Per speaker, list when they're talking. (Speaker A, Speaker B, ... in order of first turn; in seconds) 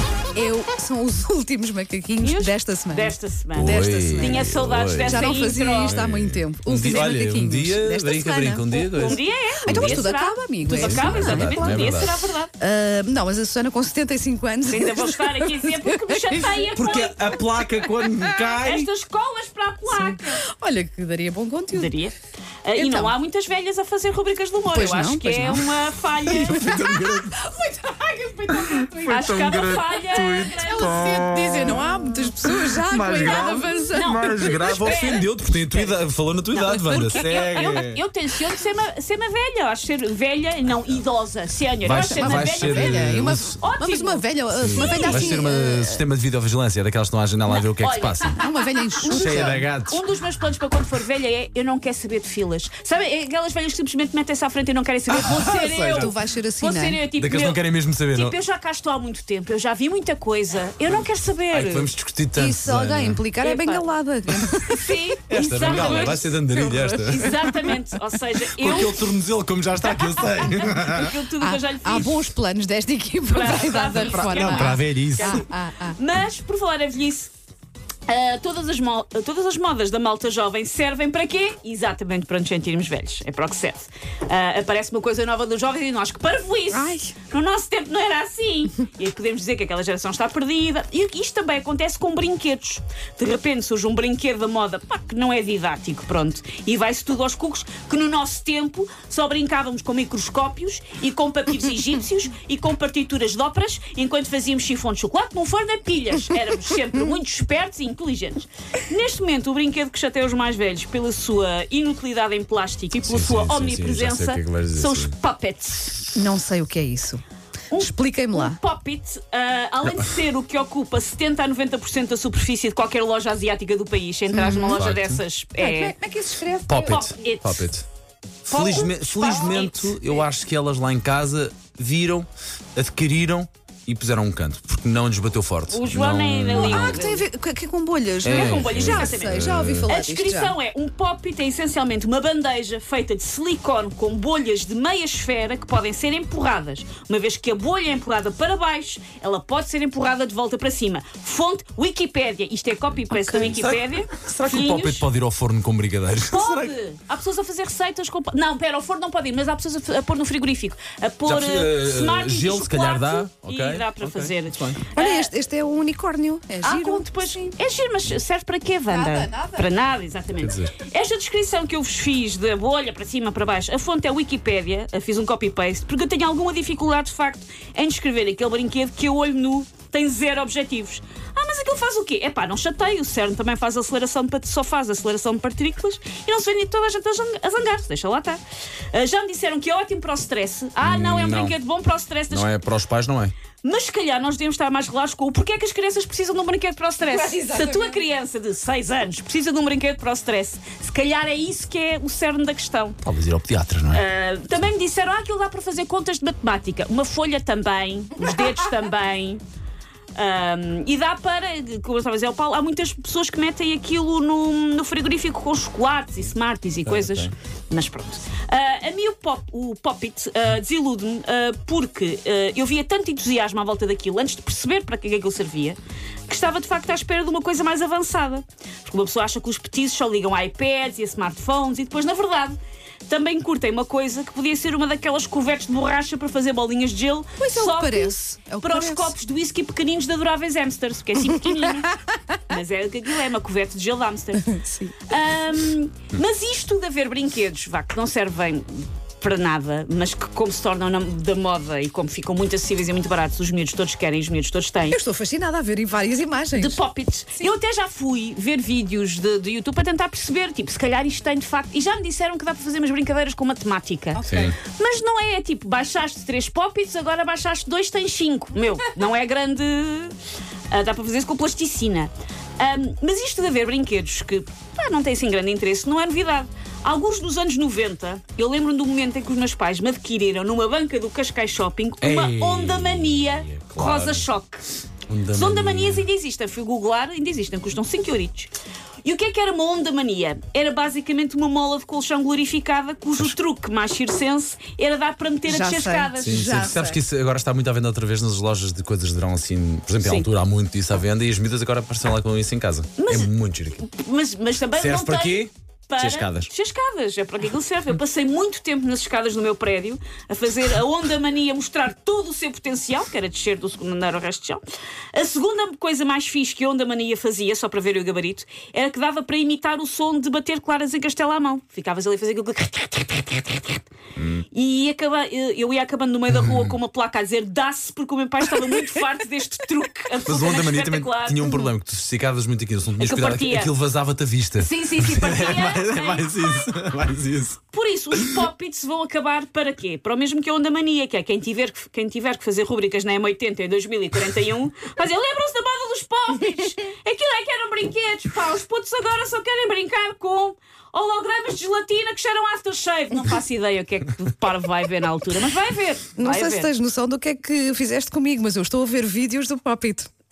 Speaker A: 0.3-4.5, 5.0-16.8, 17.4-18.5, 19.9-21.9, 22.7-23.1, 24.7-25.8, 26.5-34.8, 36.7-37.9, 41.9-46.0, 48.4-49.6, 55.4-57.0, 62.3-67.9, 71.4-76.0, 86.7-87.1, 116.2-117.2, 117.8-118.6, 124.3-124.8, 125.6-127.1, 136.5-140.6, 153.1-153.7, 165.0-167.5, 168.9-169.7, 197.0-198.0, 208.3-208.6, 237.4-239.2, 241.3-242.0, 244.5-245.0, 254.9-256.8, 264.1-264.5, 295.4-297.0, 356.2-360.1
Speaker B: 2.2-6.0, 8.9-12.5, 14.7-17.4, 18.6-20.4, 21.7-26.9, 27.7-31.1, 33.2-36.0, 36.5-45.4, 47.5-57.6, 58.1-61.9, 63.4-63.8, 64.7-66.3, 67.1-69.0, 69.8-72.3, 73.3-77.3, 78.1-116.1, 117.7-125.9, 126.8-127.7, 128.5-130.2, 135.7-137.2, 138.2-155.1, 156.3-165.3, 166.6-188.4, 188.9-192.5, 193.6-203.0, 203.9-209.4, 210.2-255.0, 256.6-270.1, 270.7-284.6, 285.3-288.5, 289.0-296.5, 300.0-300.3, 303.0-314.6, 315.1-323.8, 324.5-331.4, 333.0-333.7, 334.6-336.4, 337.7-356.7
Speaker C: 3.5-10.0, 10.7-12.3, 16.7-18.9, 26.2-27.4, 28.7-31.4, 32.8-33.5, 34.1-38.0, 41.8-43.6, 44.5-48.4, 49.1-50.0, 55.1-56.1, 57.2-58.4, 61.5-63.2, 65.3-67.3, 68.5-71.2, 73.5-75.4, 113.0-115.1, 124.8-125.2, 126.7-127.9, 128.5-137.1, 138.2-139.9, 153.3-156.8, 161.2-164.8, 170.4-170.7, 190.8-191.6, 192.3-193.3, 203.0-204.0, 216.9-217.3, 264.2-264.6, 282.0-284.3, 285.1-286.1, 296.2-303.8, 304.8-306.5, 324.2-324.4, 326.3-326.8, 330.2-337.6, 338.1-338.4